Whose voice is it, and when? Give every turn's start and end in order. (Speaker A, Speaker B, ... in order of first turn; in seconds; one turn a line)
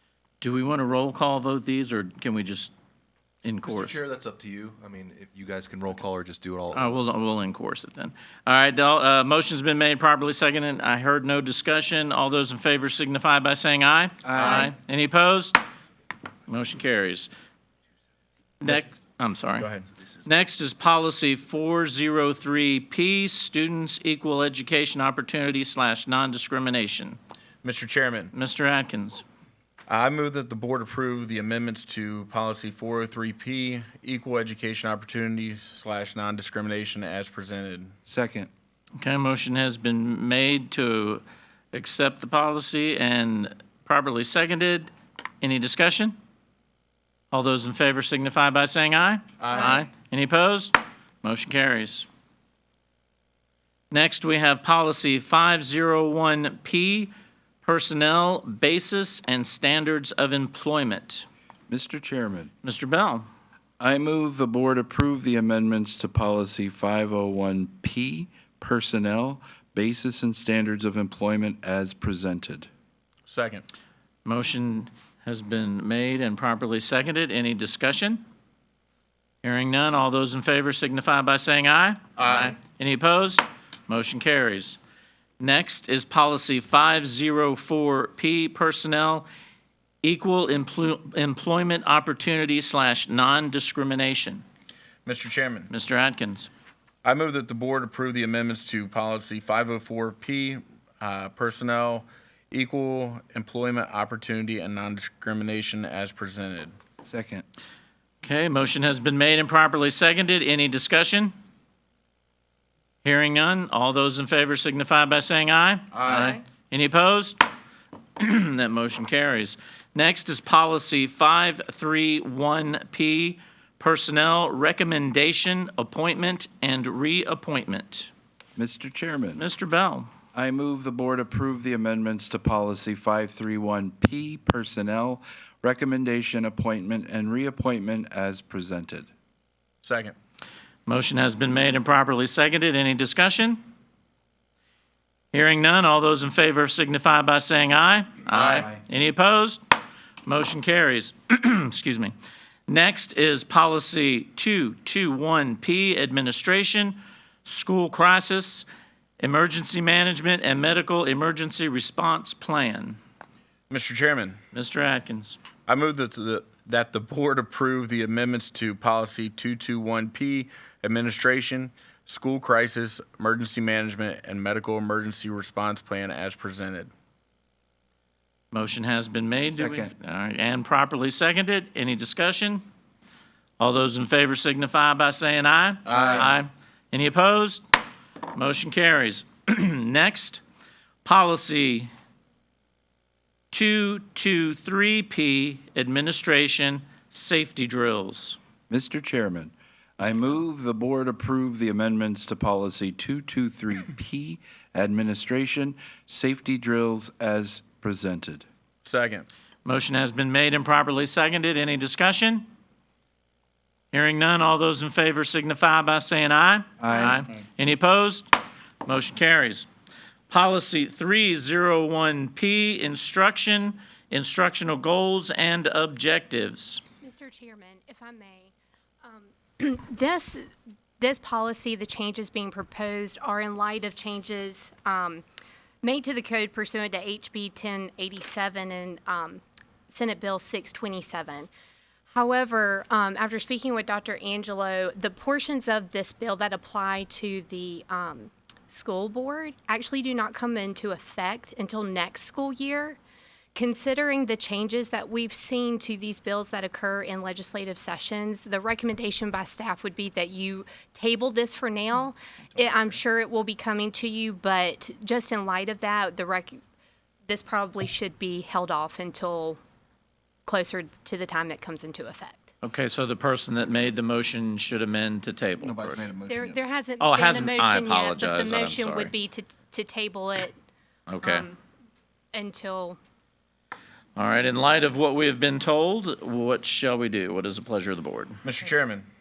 Speaker A: 0.4-2.7
Speaker A: 3.4-4.0
Speaker B: 3.6-7.1
Speaker A: 6.7-15.6
Speaker C: 14.2-14.7
Speaker A: 16.5-17.3
Speaker A: 18.6-19.7
Speaker D: 19.6-19.8
Speaker A: 20.2-27.2
Speaker D: 27.6-28.3
Speaker A: 28.3-29.2
Speaker D: 29.9-37.9
Speaker C: 38.0-38.5
Speaker A: 39.0-46.1
Speaker A: 47.3-52.1
Speaker D: 49.4-49.8
Speaker A: 53.9-57.1
Speaker A: 57.6-61.3
Speaker C: 61.7-62.5
Speaker A: 62.6-63.2
Speaker C: 63.8-72.7
Speaker D: 73.3-73.6
Speaker A: 74.2-78.2
Speaker A: 79.4-84.8
Speaker D: 82.2-82.5
Speaker A: 85.4-89.3
Speaker A: 90.0-94.4
Speaker D: 95.0-95.7
Speaker A: 95.7-96.5
Speaker D: 97.0-106.7
Speaker C: 107.0-107.4
Speaker A: 108.2-111.3
Speaker A: 113.0-117.4
Speaker D: 115.9-116.3
Speaker A: 118.2-128.1
Speaker C: 128.6-129.4
Speaker A: 129.3-130.1
Speaker C: 130.3-139.1
Speaker D: 139.8-140.1
Speaker A: 140.8-143.6
Speaker A: 145.3-149.6
Speaker D: 148.4-148.7
Speaker A: 150.2-152.1
Speaker A: 152.7-158.7
Speaker A: 159.2-163.0
Speaker D: 163.7-164.4
Speaker A: 164.5-165.4
Speaker D: 165.7-176.9
Speaker A: 178.5-182.6
Speaker C: 179.5-179.9
Speaker A: 183.6-187.6
Speaker D: 185.8-186.3
Speaker C: 185.9-186.2
Speaker A: 188.3-190.4
Speaker A: 191.0-191.9
Speaker A: 193.5-198.4
Speaker C: 198.7-208.4
Speaker D: 208.8-209.3
Speaker A: 209.6-212.4
Speaker A: 213.9-218.3
Speaker C: 216.8-217.2
Speaker A: 218.8-219.7
Speaker A: 220.3-226.8
Speaker E: 227.0-230.5
Speaker E: 231.0-235.2
Speaker E: 235.8-241.5
Speaker E: 242.1-253.0
Speaker E: 253.5-266.6
Speaker E: 267.3-269.6
Speaker E: 270.4-272.5
Speaker A: 272.6-276.1
Speaker D: 276.1-276.4
Speaker E: 276.3-280.5
Speaker A: 277.0-279.1
Speaker A: 281.1-281.5
Speaker E: 281.2-281.6
Speaker E: 282.3-283.0
Speaker A: 284.2-288.4
Speaker D: 288.4-289.1